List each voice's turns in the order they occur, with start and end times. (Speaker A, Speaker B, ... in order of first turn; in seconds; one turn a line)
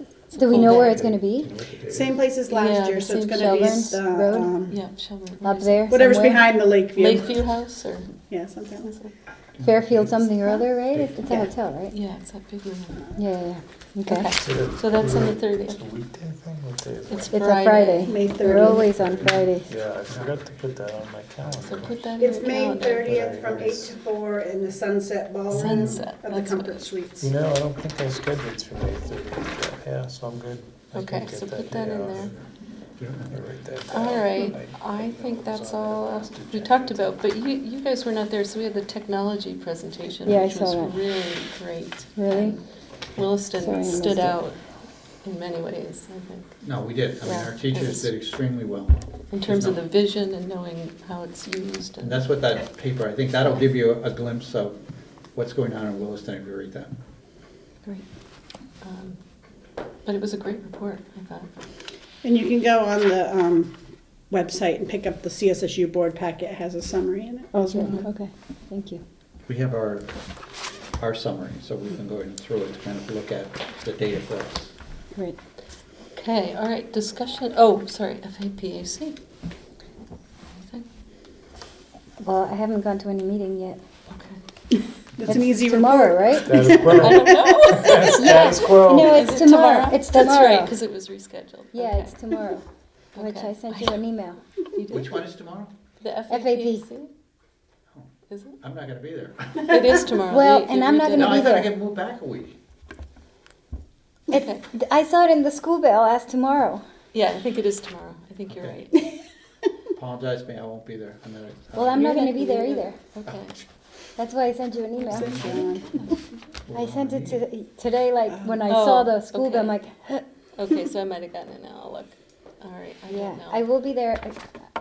Speaker A: 0.3-1.0
Speaker B: 0.3-1.5
Speaker C: 0.5-2.2
Speaker D: 1.9-4.8
Speaker A: 2.5-3.9
Speaker B: 3.3-4.5
Speaker A: 4.7-6.0
Speaker B: 5.4-6.5
Speaker D: 5.9-7.3
Speaker A: 7.0-8.1
Speaker D: 8.3-8.9
Speaker A: 8.8-9.1
Speaker C: 9.6-10.3
Speaker B: 9.6-11.9
Speaker A: 11.9-13.1
Speaker B: 13.2-14.3
Speaker A: 14.1-15.8
Speaker E: 14.3-17.4
Speaker A: 17.1-18.8
Speaker B: 17.3-19.7
Speaker D: 18.1-18.9
Speaker E: 18.5-22.1
Speaker A: 21.6-23.1
Speaker D: 22.2-27.3
Speaker E: 22.9-24.0
Speaker A: 25.5-26.9
Speaker E: 25.6-25.9
Speaker E: 27.2-32.4
Speaker A: 30.9-32.3
Speaker C: 33.0-33.5
Speaker E: 33.3-37.2
Speaker A: 33.9-42.6
Speaker B: 40.2-41.0
Speaker B: 42.1-42.6
Speaker A: 43.1-44.6
Speaker B: 43.6-44.4
Speaker A: 45.2-46.5
Speaker C: 46.6-49.8
Speaker A: 47.2-48.1
Speaker A: 49.3-52.2
Speaker C: 52.0-54.8
Speaker C: 55.3-57.0
Speaker A: 58.8-59.2
Speaker A: 60.0-61.5
Speaker D: 62.2-63.8
Speaker D: 64.3-68.0
Speaker B: 67.5-69.0
Speaker C: 69.5-70.1
Speaker C: 71.0-74.7
Speaker A: 76.1-79.2
Speaker A: 80.5-80.8
Speaker B: 82.2-83.8
Speaker A: 84.1-84.4
Speaker D: 85.2-88.1
Speaker B: 85.3-86.8
Speaker E: 86.4-89.4
Speaker A: 86.9-92.1
Speaker B: 88.1-90.7
Speaker B: 91.7-92.6
Speaker B: 93.1-94.4
Speaker A: 93.2-93.9
Speaker A: 94.7-95.2
Speaker C: 94.9-95.7
Speaker A: 96.0-97.1
Speaker B: 96.3-96.8
Speaker A: 98.3-98.6
Speaker C: 98.6-100.0
Speaker A: 99.7-101.7
Speaker B: 100.2-101.7
Speaker C: 101.1-102.5
Speaker B: 104.3-106.8
Speaker A: 104.3-104.6
Speaker A: 107.1-109.0
Speaker C: 108.5-108.8
Speaker C: 109.9-112.3
Speaker B: 111.7-113.0
Speaker A: 111.9-113.6
Speaker B: 114.2-115.8
Speaker D: 115.1-115.9
Speaker C: 115.1-115.7
Speaker C: 116.7-117.4
Speaker B: 116.7-120.3
Speaker A: 118.7-119.8
Speaker A: 120.5-123.6
Speaker B: 123.1-124.4